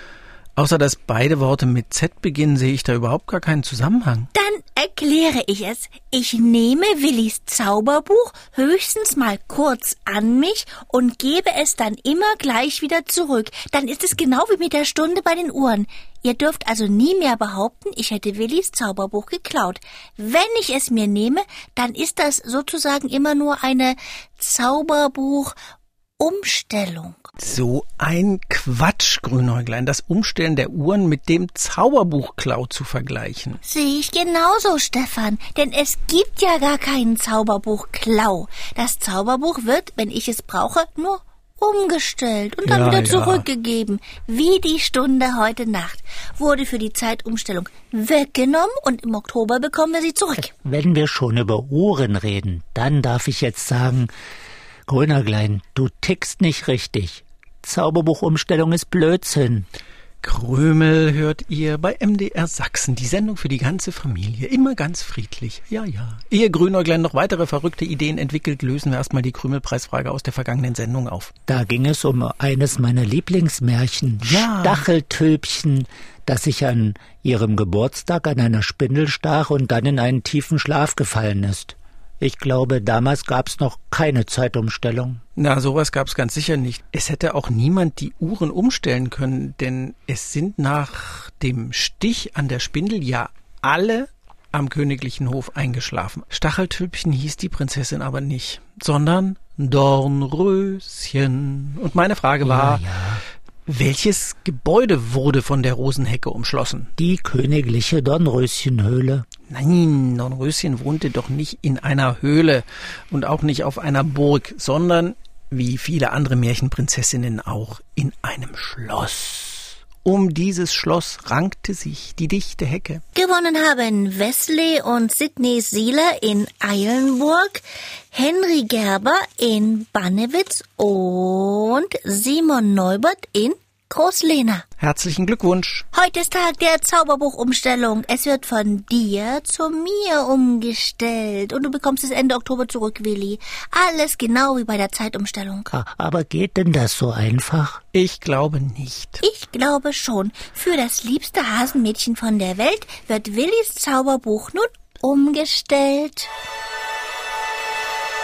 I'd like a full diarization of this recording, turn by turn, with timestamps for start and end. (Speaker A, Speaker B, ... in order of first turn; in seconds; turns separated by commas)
Speaker A: 0.6-4.3, Speaker B: 4.3-25.5, Speaker B: 26.2-27.3, Speaker A: 27.4-33.6, Speaker B: 33.6-50.5, Speaker A: 42.6-43.4, Speaker C: 50.5-54.1, Speaker C: 54.9-59.7, Speaker A: 60.2-71.3, Speaker C: 71.5-85.2, Speaker A: 74.2-74.8, Speaker A: 85.3-102.8, Speaker C: 102.4-103.2, Speaker A: 103.7-106.9, Speaker C: 107.0-109.2, Speaker A: 109.5-123.0, Speaker B: 123.1-134.6, Speaker A: 134.8-135.8, Speaker B: 135.9-145.7, Speaker C: 145.7-147.8, Speaker A: 147.9-149.2, Speaker B: 149.2-156.3